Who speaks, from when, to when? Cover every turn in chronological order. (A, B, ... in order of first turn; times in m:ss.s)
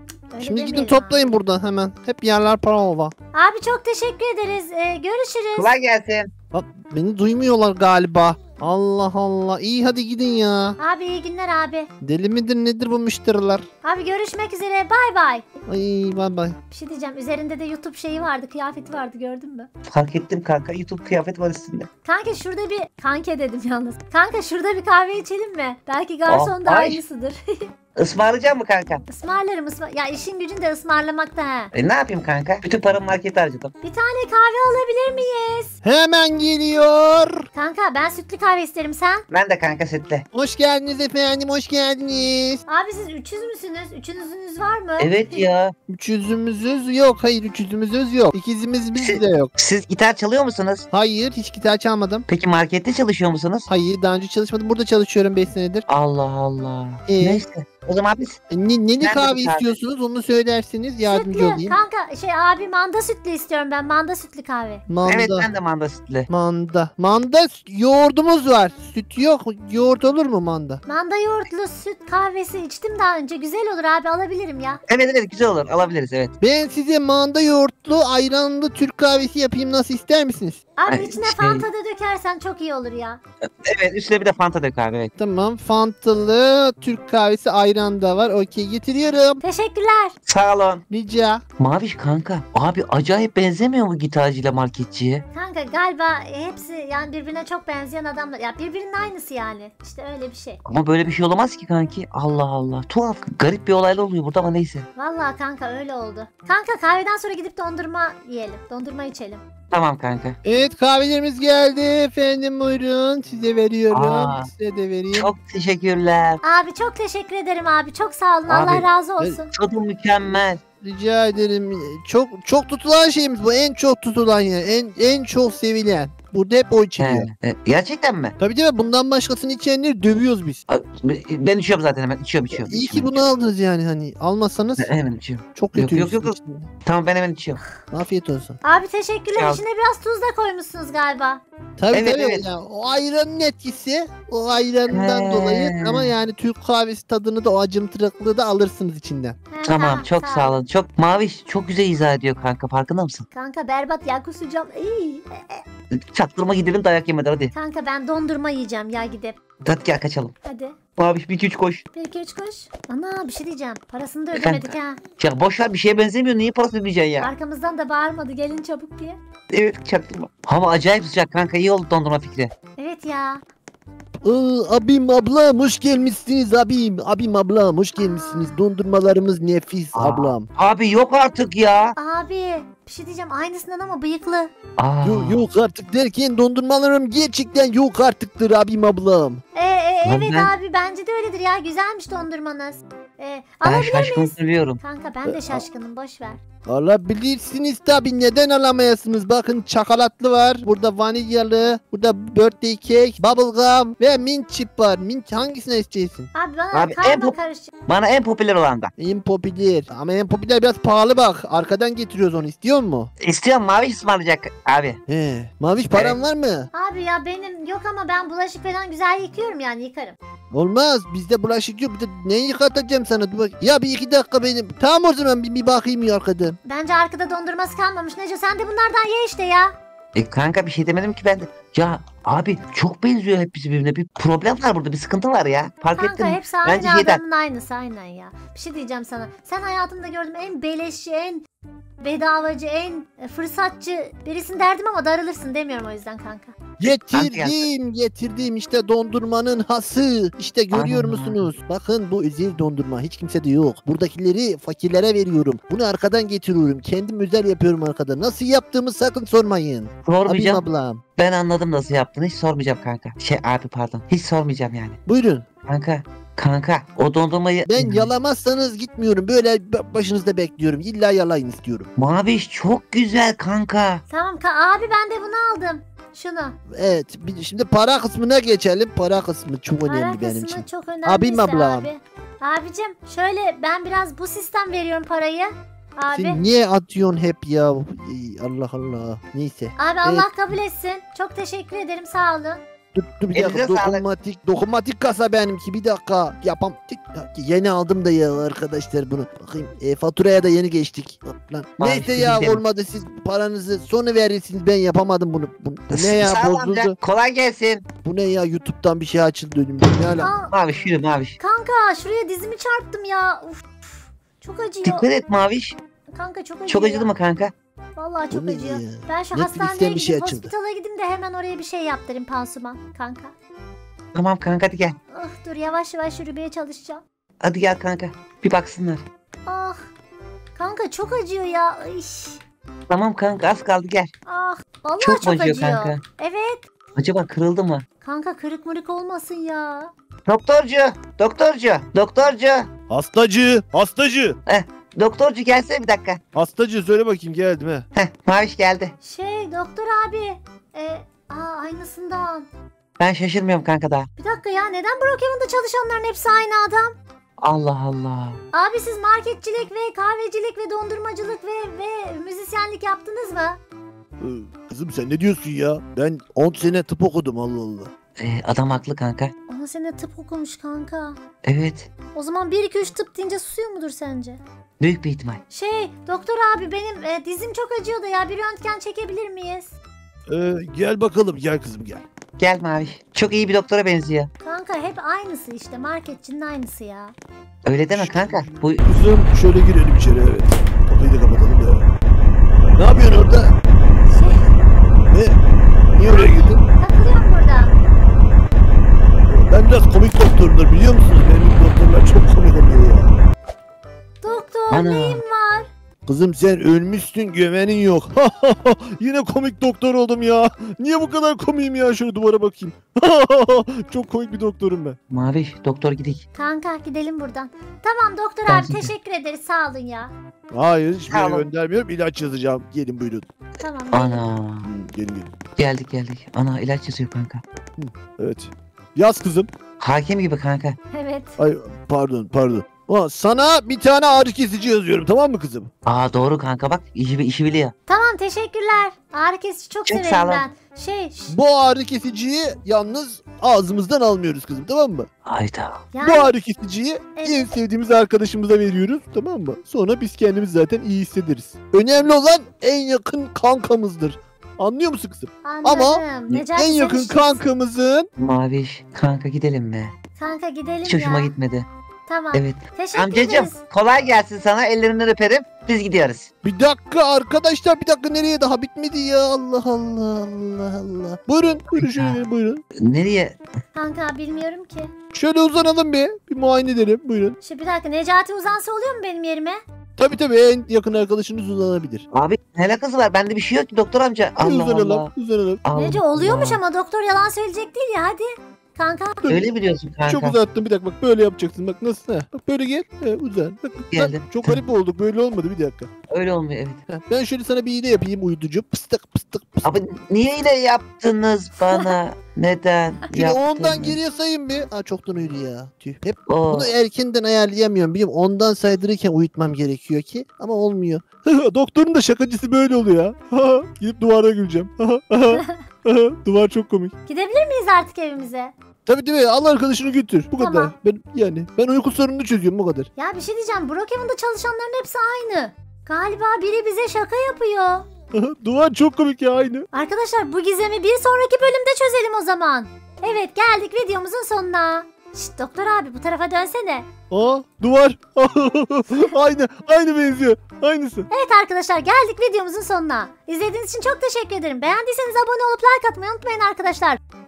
0:00.3-0:01.2 A
0:00.4-0:03.1 B
0:03.3-0:05.7 A
0:05.6-0:06.3 C
0:06.5-0:10.8 B
0:10.8-0:11.9 A
0:12.0-0:13.6 B
0:13.8-0:15.4 A
0:15.7-0:16.6 B
0:16.7-0:19.7 A
0:19.8-0:21.9 C
0:22.0-0:27.7 A
0:26.3-0:27.0 C
0:28.0-0:29.0 C
0:29.1-0:31.7 A
0:31.7-0:33.7 C
0:33.8-0:35.8 A
0:35.8-0:37.4 B
0:37.5-0:39.2 A
0:39.3-0:40.2 C
0:40.3-0:42.6 B
0:42.7-0:45.4 A
0:45.0-0:45.7 C
0:45.9-0:49.5 B
0:49.0-0:50.9 C
0:50.9-0:52.3 B
0:52.3-0:53.7 C
0:53.7-0:55.8 B
0:55.9-0:58.4 C
0:57.1-0:57.4 B
0:58.5-1:01.8 B
0:59.0-0:59.7 C
1:01.0-1:04.8 A
1:04.9-1:05.5 B
1:05.0-1:06.3 C
1:06.3-1:10.8 B
1:10.8-1:14.8 A
1:14.9-1:16.3 C
1:16.4-1:20.6 B
1:20.8-1:23.2 A
1:20.8-1:21.6 C
1:23.6-1:25.1 C
1:25.2-1:29.4 B
1:29.4-1:30.1 A
1:30.2-1:30.8 C
1:30.9-1:31.4 B
1:31.6-1:35.2 C
1:35.3-1:40.6 A
1:40.6-1:44.9 C
1:45.0-1:49.4 A
1:49.7-1:50.4 C
1:50.4-1:55.3 B
1:53.9-1:54.5 C
1:55.1-1:56.4 C
1:56.4-1:59.5 A
1:58.5-1:58.9 C
1:59.5-2:00.6 C
2:00.8-2:07.3 B
2:07.0-2:08.3 C
2:08.4-2:10.6 B
2:10.7-2:13.3 C
2:12.6-2:14.9 B
2:14.8-2:17.6 C
2:15.5-2:16.7 B
2:17.9-2:18.6 B
2:18.6-2:21.4 A
2:19.3-2:19.6 C
2:21.8-2:29.4 B
2:21.9-2:22.4 C
2:24.9-2:26.1 C
2:29.5-2:30.6 A
2:29.6-2:33.3 C
2:33.3-2:35.6 A
2:35.9-2:37.5 C
2:37.5-2:39.4 A
2:39.6-2:40.3 C
2:40.4-2:40.7 A
2:41.0-2:41.8 C
2:41.9-2:45.0 A
2:44.3-2:47.3 C
2:47.2-2:49.2 A
2:49.5-2:52.5 C
2:52.8-2:53.4 A
2:54.2-3:00.5 B
2:58.0-2:58.5 A
3:00.0-3:01.9 C
3:02.0-3:04.5 A
3:04.8-3:05.5 C
3:05.0-3:09.4 B
3:09.5-3:16.4 A
3:10.0-3:10.5 C
3:13.6-3:14.8 C
3:15.2-3:15.6 B
3:16.6-3:26.3 B
3:26.3-3:27.7 A
3:26.7-3:27.4 C
3:27.9-3:28.9 C
3:29.0-3:33.1 B
3:33.2-3:35.0 C
3:35.1-3:36.7 B
3:35.9-3:36.2 C
3:36.7-3:40.2 A
3:40.5-3:46.6 B
3:46.6-3:49.7 A
3:50.1-3:57.2 C
3:56.0-4:01.4 A
4:02.0-4:06.5 A
4:06.8-4:21.0 B
4:07.1-4:07.6 C
4:10.7-4:11.5 C
4:20.0-4:20.6 C
4:21.2-4:25.0 C
4:25.0-4:25.4 B
4:25.6-4:28.1 C
4:27.7-4:31.9 B
4:32.0-4:34.0 C
4:34.1-4:36.5 A
4:36.7-4:41.9 B
4:39.8-4:46.4 A
4:46.1-4:50.3 B
4:49.8-4:52.6 A
4:52.9-5:07.0 B
4:53.3-4:54.0 C
5:01.8-5:02.6 C
5:05.9-5:07.8 C
5:08.0-5:10.3 B
5:10.2-5:10.5 A
5:10.5-5:11.4 C
5:11.4-5:15.0 A
5:14.8-5:15.8 C
5:16.1-5:17.1 A
5:16.7-5:17.5 C
5:18.0-5:23.3 A
5:18.3-5:20.5 B
5:24.1-5:25.0 C
5:25.1-5:27.0 A
5:27.4-5:29.0 C
5:29.4-5:29.8 A
5:30.6-5:32.4 A
5:32.9-5:34.1 C
5:34.3-5:36.6 A
5:35.0-5:36.0 C
5:37.0-5:37.8 C
5:38.0-5:39.9 A
5:40.2-5:42.7 C
5:42.9-5:44.4 B
5:44.5-5:46.2 C
5:46.3-5:47.9 B
5:47.9-5:48.9 C
5:49.0-5:52.5 A
5:53.0-5:54.1 C
5:54.2-5:56.9 A
5:57.4-5:58.4 C
5:58.5-6:03.6 A
6:04.2-6:07.9 B
6:08.2-6:09.3 C
6:09.5-6:11.2 A
6:11.4-6:11.9 C
6:12.1-6:14.4 A
6:14.8-6:15.4 C
6:15.5-6:19.7 A
6:20.3-6:22.0 B
6:22.4-6:24.3 C
6:24.4-6:27.1 A
6:27.6-6:28.9 C
6:27.9-6:31.9 B
6:32.7-6:33.6 B
6:34.1-6:34.5 A
6:35.1-6:35.4 B
6:35.9-6:36.6 B
6:36.0-6:37.7 A
6:39.3-6:43.1 B
6:44.2-6:45.7 A
6:44.7-6:45.2 C
6:46.0-6:55.0 B
6:55.1-6:56.2 C
6:56.3-7:00.1 A
6:58.5-6:58.9 C
7:00.5-7:03.2 B
7:01.1-7:01.5 C
7:03.6-7:04.2 A
7:03.9-7:04.7 C
7:04.6-7:05.3 B
7:05.6-7:07.4 C
7:07.8-7:09.5 B
7:09.8-7:10.8 C
7:10.9-7:11.4 A
7:11.4-7:15.7 B
7:15.8-7:17.7 C
7:17.9-7:21.3 A
7:19.8-7:20.4 C
7:21.3-7:25.1 B
7:25.2-7:25.8 C
7:25.9-7:26.3 A
7:26.0-7:38.1 B
7:27.2-7:27.5 A
7:35.4-7:37.4 A
7:38.2-7:39.9 C
7:40.2-7:41.3 A
7:40.8-7:41.7 C
7:42.1-7:43.6 A
7:42.3-7:46.3 C
7:46.4-7:52.6 B
7:51.7-7:52.2 C
7:52.8-7:53.4 C
7:53.7-7:54.9 A
7:55.1-7:57.4 B
7:57.4-7:59.6 A
8:00.0-8:02.0 B
8:02.1-8:05.1 C
8:04.4-8:05.6 B
8:05.6-8:06.6 C
8:05.7-8:09.2 A
8:09.2-8:09.5 B
8:09.3-8:10.4 C
8:10.0-8:15.9 B
8:13.9-8:14.6 C
8:16.1-8:16.8 C
8:16.9-8:19.8 B
8:19.6-8:24.0 C
8:23.1-8:36.9 B
8:26.3-8:26.7 C
8:35.3-8:35.6 A
8:37.0-8:38.5 A
8:38.8-8:42.9 B
8:40.4-8:40.7 A
8:43.0-8:47.8 A
8:48.1-8:49.6 B
8:49.7-8:56.9 A
8:57.1-9:01.1 B
9:01.1-9:07.0 A